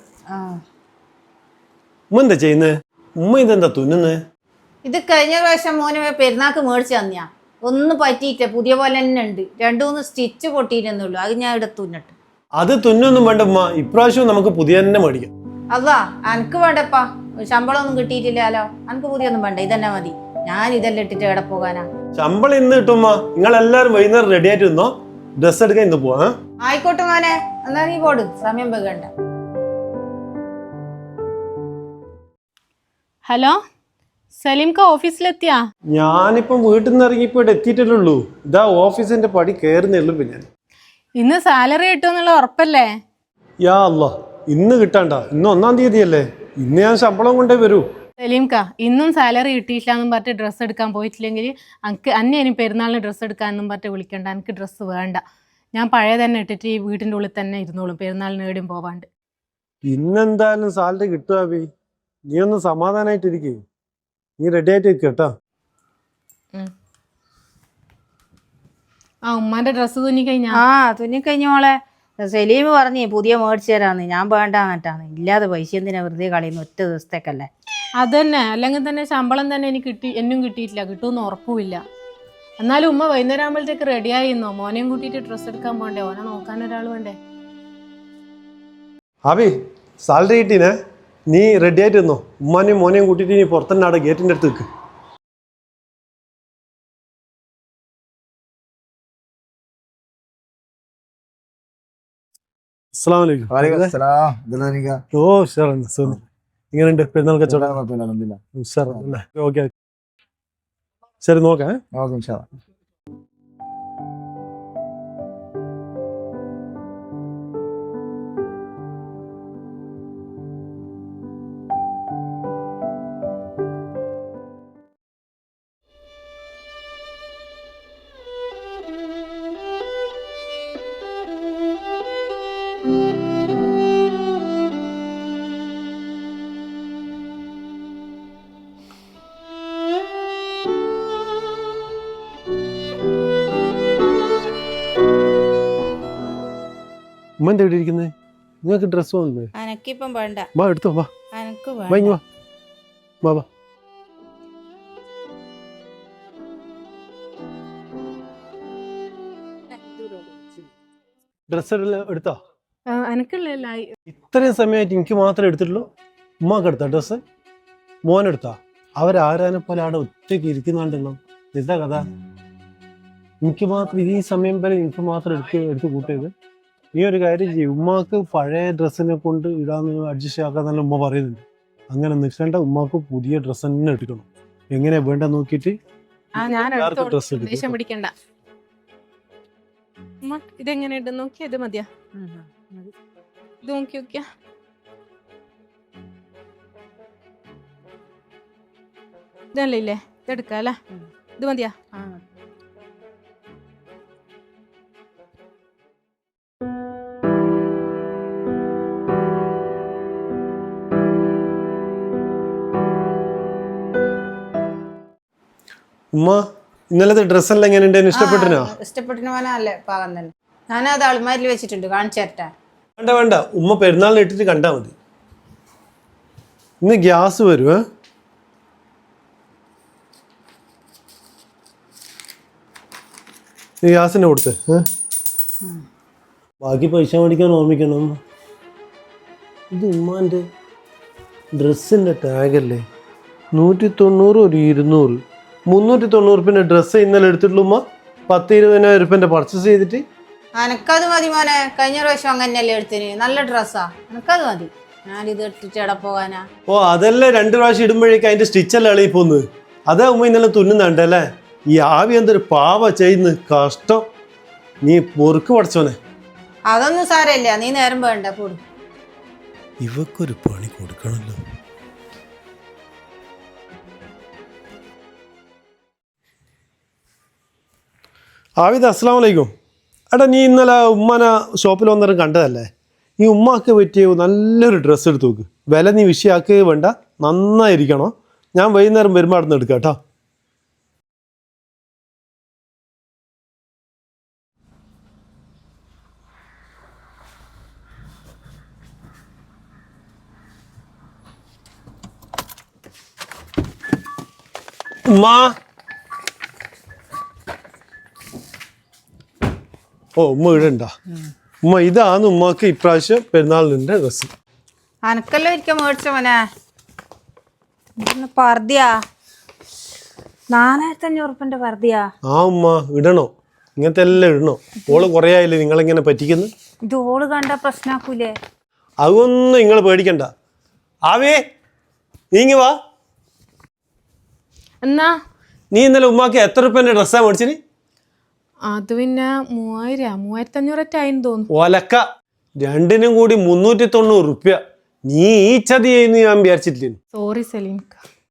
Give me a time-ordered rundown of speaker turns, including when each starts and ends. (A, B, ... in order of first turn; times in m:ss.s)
0:00.3-0:00.6 A
0:02.1-0:04.2 B
0:04.8-0:12.1 A
0:12.6-0:15.3 B
0:15.7-0:21.9 A
0:22.1-0:26.3 B
0:26.6-0:29.1 A
0:33.3-0:33.6 C
0:34.3-0:35.6 C
0:35.9-0:40.4 B
0:41.2-0:42.9 C
0:43.6-0:47.8 B
0:48.2-0:55.2 C
0:55.7-0:59.1 C
0:59.8-1:01.7 B
1:02.3-1:03.6 B
1:04.4-1:05.3 B
1:09.3-1:10.6 C
1:10.5-1:17.5 A
1:18.0-1:21.8 C
1:22.6-1:27.2 C
1:29.3-1:30.7 B
1:31.3-1:34.6 B
1:43.0-1:43.9 B
1:43.5-1:45.0 D
1:45.1-1:46.2 B
1:46.7-1:47.8 B
1:47.5-1:49.0 D
1:48.6-1:49.7 B
1:51.2-1:51.8 B
1:51.9-1:52.5 D
2:27.4-2:28.1 B
2:28.6-2:29.5 B
2:29.6-2:30.5 A
2:30.6-2:31.1 B
2:31.3-2:32.2 A
2:31.9-2:32.2 B
2:41.5-2:42.3 B
2:42.9-2:43.9 C
2:44.1-2:45.8 B
2:46.4-2:47.2 B
2:48.1-2:52.0 B
2:53.4-2:56.3 B
2:56.9-3:05.8 B
3:06.4-3:08.1 C
3:06.4-3:07.7 B
3:10.2-3:11.9 C
3:12.2-3:12.9 A
3:13.6-3:14.2 C
3:19.5-3:20.8 C
3:21.4-3:21.8 C
3:21.9-3:22.2 A
3:36.1-3:38.7 B
3:38.1-3:42.5 A
3:43.0-3:44.9 B
3:46.8-3:47.8 B
3:53.8-3:54.9 B
3:56.6-3:58.2 B
3:59.7-4:00.4 B
4:01.5-4:02.8 B
4:03.5-4:10.0 B
4:10.6-4:16.4 A
4:16.7-4:24.0 B
4:24.8-4:26.0 B
4:26.7-4:28.6 A
4:29.8-4:31.4 B
4:38.6-4:39.5 B
4:40.1-4:50.0 B
5:05.1-5:05.5 B
5:10.2-5:10.9 B
5:11.6-5:14.3 B
5:15.1-5:16.4 A
5:18.0-5:19.0 A
5:20.5-5:22.1 A
5:22.3-5:26.5 B
5:26.8-5:28.3 A
5:29.0-5:30.3 B
5:31.1-5:31.4 B
5:32.3-5:32.8 B
5:34.8-5:35.1 C
5:35.7-5:37.6 B
5:38.7-5:41.5 C
5:41.5-5:42.0 B
5:42.6-5:47.0 B
5:47.1-5:48.0 C